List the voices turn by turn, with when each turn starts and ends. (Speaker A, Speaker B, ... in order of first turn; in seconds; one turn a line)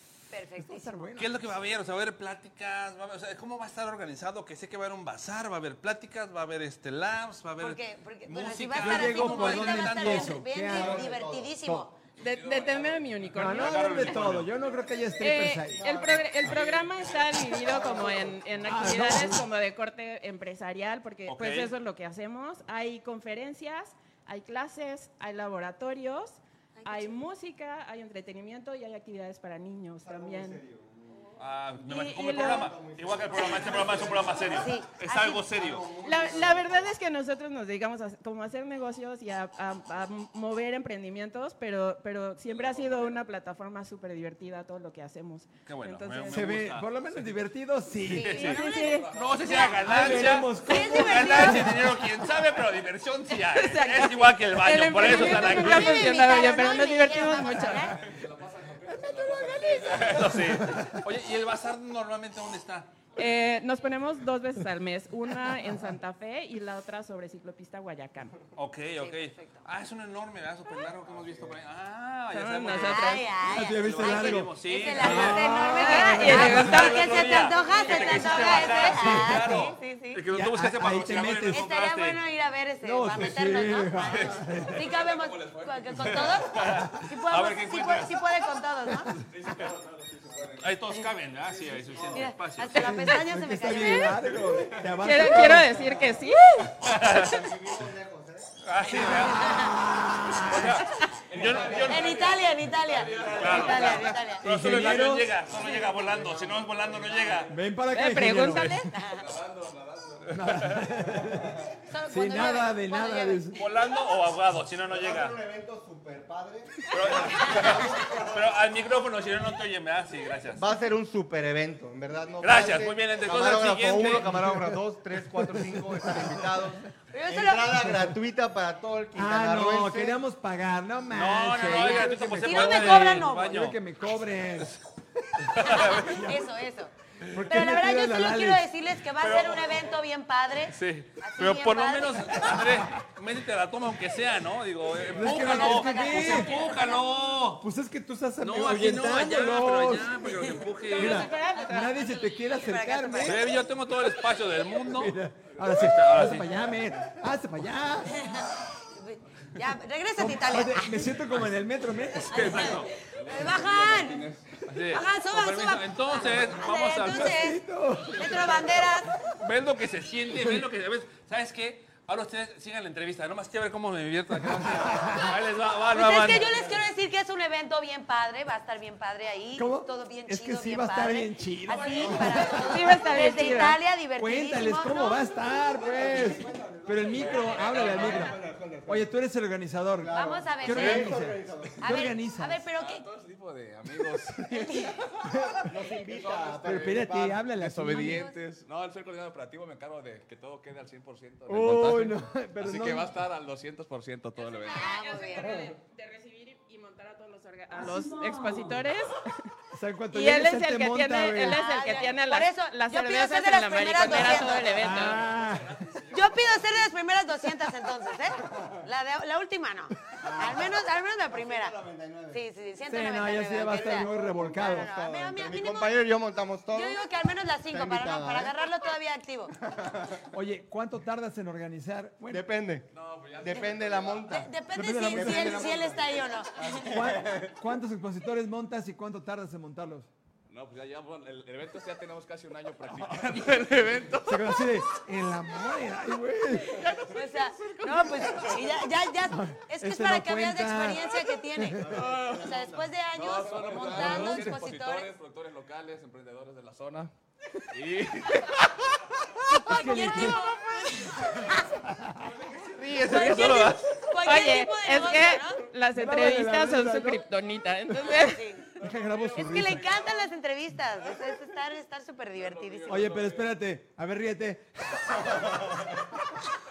Speaker A: 0.3-1.1
Speaker B: 0.6-1.3
Speaker C: 1.2-10.4
Speaker A: 7.6-12.0
Speaker B: 8.7-11.1
Speaker D: 10.6-11.6
Speaker B: 11.6-11.9
Speaker E: 12.2-14.3
Speaker F: 12.2-13.6
Speaker B: 13.3-15.9
Speaker C: 13.4-14.5
Speaker F: 14.5-15.0
Speaker E: 15.2-30.6
Speaker D: 15.7-16.7
Speaker F: 16.5-17.9
Speaker D: 17.6-18.4
Speaker B: 18.6-19.4
Speaker C: 21.3-21.7
Speaker A: 26.8-27.2
Speaker D: 30.0-31.3
Speaker C: 31.4-35.9
Speaker E: 31.8-32.8
Speaker D: 32.3-34.7
Speaker A: 34.4-35.5
Speaker D: 35.5-36.9
Speaker E: 36.0-46.5
Speaker F: 42.6-43.1
Speaker C: 45.7-47.2
Speaker B: 46.3-48.4
Speaker C: 48.1-48.6
Speaker A: 48.2-51.9
Speaker E: 48.2-49.1
Speaker F: 48.5-49.8
Speaker C: 49.1-56.1
Speaker B: 49.8-51.9
Speaker E: 53.3-57.9
Speaker A: 54.9-58.1
Speaker F: 57.6-60.4
Speaker A: 59.0-60.2
Speaker C: 59.8-62.9
Speaker B: 60.4-61.0
Speaker E: 63.2-68.4
Speaker C: 68.6-82.2
Speaker A: 69.0-69.6
Speaker E: 72.3-73.3
Speaker A: 72.7-80.2
Speaker B: 73.4-77.0
Speaker E: 75.8-77.3
Speaker B: 78.2-79.6
Speaker B: 80.3-81.7
Speaker A: 81.5-89.2
Speaker B: 82.8-84.9
Speaker C: 84.0-84.4
Speaker F: 84.4-86.5
Speaker C: 85.9-88.1
Speaker F: 89.2-92.4
Speaker C: 90.6-93.2
Speaker A: 92.1-94.3
Speaker B: 92.7-96.2
Speaker F: 94.2-94.9
Speaker E: 95.0-96.8
Speaker C: 96.8-97.5
Speaker D: 96.9-98.5
Speaker C: 98.6-99.8
Speaker B: 98.9-100.9
Speaker A: 99.0-99.8
Speaker C: 100.4-102.4
Speaker F: 101.2-104.3
Speaker A: 101.8-104.5
Speaker C: 103.3-107.5
Speaker B: 104.4-105.4
Speaker F: 105.0-107.5
Speaker B: 107.5-108.9
Speaker E: 107.9-108.9
Speaker A: 108.9-109.2
Speaker F: 109.0-110.4
Speaker C: 110.3-110.9
Speaker B: 110.3-113.6
Speaker D: 111.3-111.8
Speaker A: 111.9-113.7
Speaker C: 113.5-115.4
Speaker D: 114.9-118.5
Speaker C: 116.9-120.6
Speaker D: 120.5-130.2
Speaker C: 122.4-124.3
Speaker B: 124.0-126.5
Speaker A: 127.1-127.8
Speaker B: 127.8-128.2
Speaker B: 129.2-134.7
Speaker C: 131.1-133.8
Speaker A: 131.7-133.6
Speaker B: 135.3-136.4
Speaker C: 135.5-136.3
Speaker A: 135.6-136.9
Speaker B: 137.3-138.6
Speaker A: 137.5-142.7
Speaker C: 139.2-139.8
Speaker C: 140.7-147.7
Speaker B: 145.1-146.6
Speaker A: 145.3-147.1
Speaker B: 147.6-150.2
Speaker C: 148.4-151.3
Speaker E: 150.9-152.0
Speaker B: 150.9-153.5
Speaker A: 151.1-151.9
Speaker A: 152.4-153.5
Speaker C: 153.2-155.2
Speaker B: 154.8-158.2
Speaker C: 155.7-156.5
Speaker A: 158.1-161.1
Speaker B: 160.2-162.6
Speaker C: 162.2-162.9
Speaker A: 162.3-164.2
Speaker F: 162.6-164.6
Speaker C: 164.7-167.4
Speaker A: 164.9-169.2
Speaker B: 166.9-168.9
Speaker C: 169.4-176.6
Speaker B: 170.4-170.7
Speaker B: 174.3-175.4
Speaker A: 175.9-185.2
Speaker B: 179.6-182.7
Speaker D: 181.7-182.7
Speaker E: 182.6-183.8
Speaker B: 184.2-192.7
Speaker D: 185.8-189.1
Speaker F: 187.2-188.3
Speaker D: 190.0-192.1
Speaker A: 190.1-191.2
Speaker A: 191.8-193.1
Speaker F: 192.8-194.7
Speaker A: 194.4-195.0
Speaker B: 195.3-195.7
Speaker D: 195.6-197.4
Speaker F: 196.0-205.0
Speaker B: 196.6-198.3
Speaker A: 198.0-198.3
Speaker B: 201.5-203.1
Speaker E: 204.4-209.3
Speaker A: 204.7-205.7
Speaker B: 209.7-211.6
Speaker E: 210.1-215.2
Speaker A: 211.4-215.0
Speaker F: 214.0-216.9
Speaker B: 214.7-215.8
Speaker A: 216.1-221.8
Speaker D: 220.2-222.4
Speaker A: 222.3-226.0
Speaker B: 222.9-224.9
Speaker D: 223.6-227.1
Speaker A: 226.7-229.6
Speaker D: 227.7-228.6
Speaker D: 229.6-230.2
Speaker B: 230.3-232.5
Speaker D: 232.3-232.9
Speaker F: 232.9-234.4
Speaker D: 233.4-234.6
Speaker A: 234.3-236.9
Speaker B: 234.7-235.9
Speaker D: 235.1-237.6
Speaker B: 236.8-240.1
Speaker F: 240.5-244.5
Speaker C: 243.7-244.0
Speaker B: 244.2-246.9
Speaker F: 246.9-247.2
Speaker A: 247.1-255.1
Speaker B: 249.3-251.9
Speaker D: 251.8-252.9
Speaker F: 251.9-252.6
Speaker F: 253.1-257.1
Speaker B: 253.9-254.6
Speaker F: 257.7-258.4
Speaker A: 259.5-261.8
Speaker B: 259.6-260.4
Speaker B: 261.9-262.3
Speaker C: 262.7-264.0
Speaker A: 262.9-265.6
Speaker E: 264.2-268.6
Speaker B: 265.9-267.2
Speaker A: 267.9-268.8
Speaker B: 268.8-269.9
Speaker F: 268.8-270.3
Speaker A: 269.4-273.1
Speaker F: 272.3-273.5
Speaker B: 272.9-275.5